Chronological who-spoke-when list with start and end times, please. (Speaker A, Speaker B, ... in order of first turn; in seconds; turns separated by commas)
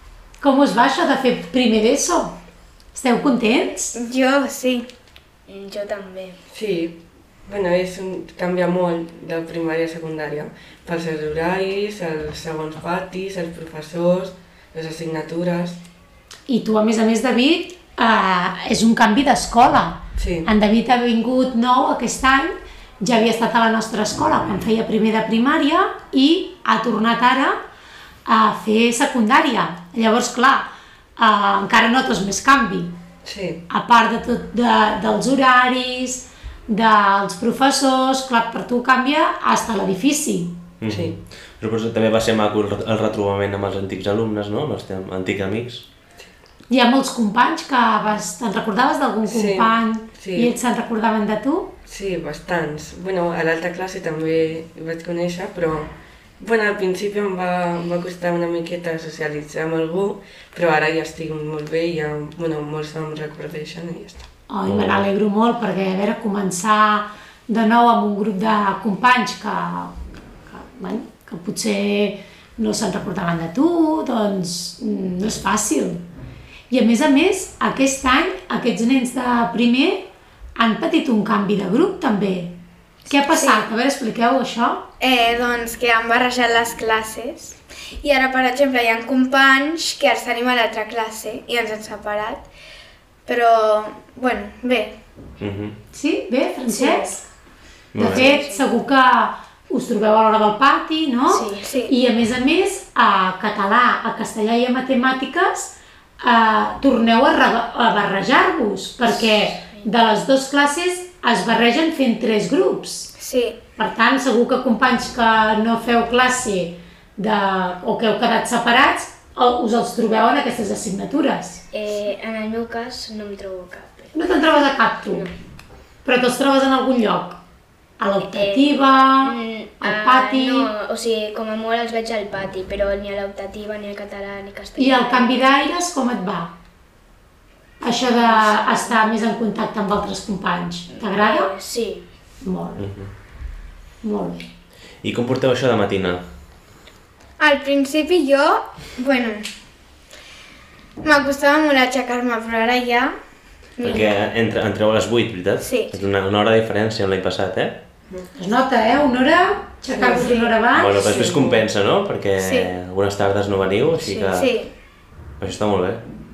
Speaker A: 0.4-2.4, Speaker A: 2.9-4.0, Speaker B: 4.0-4.9, Speaker B: 5.5-6.3, Speaker C: 6.5-7.0, Speaker C: 7.5-15.8, Speaker A: 16.5-27.6, Speaker C: 20.2-20.5, Speaker A: 28.3-33.0, Speaker C: 33.2-33.6, Speaker A: 33.7-40.6, Speaker D: 40.8-45.9, Speaker C: 40.9-41.2, Speaker A: 46.7-51.7, Speaker C: 49.3-50.5, Speaker C: 51.9-64.3, Speaker A: 64.5-70.0, Speaker D: 64.7-65.0, Speaker A: 70.5-76.0, Speaker A: 76.7-82.5, Speaker B: 83.1-83.6, Speaker A: 83.1-84.8, Speaker B: 85.0-92.5, Speaker B: 93.3-95.0, Speaker D: 95.4-95.8, Speaker A: 95.9-97.3, Speaker B: 96.7-97.2, Speaker D: 97.9-98.3, Speaker A: 98.0-113.1, Speaker B: 98.0-98.7, Speaker B: 101.3-101.9, Speaker B: 113.2-113.6, Speaker A: 113.8-121.6, Speaker E: 121.7-124.1, Speaker A: 124.1-125.3, Speaker A: 126.0-127.4, Speaker A: 128.0-130.7, Speaker E: 128.2-131.4, Speaker E: 132.2-132.8, Speaker E: 134.5-134.8, Speaker A: 134.8-136.5, Speaker A: 137.8-141.5, Speaker B: 141.2-142.0, Speaker A: 142.4-142.9, Speaker D: 142.8-143.1, Speaker A: 144.0-144.5, Speaker D: 145.0-146.2, Speaker B: 147.4-149.4, Speaker B: 151.0-153.1, Speaker B: 153.8-154.1, Speaker D: 153.8-157.8, Speaker B: 155.6-155.9, Speaker A: 158.3-161.0, Speaker C: 159.9-161.6, Speaker D: 160.7-164.5, Speaker B: 162.4-162.7, Speaker B: 164.0-164.7, Speaker D: 165.4-166.0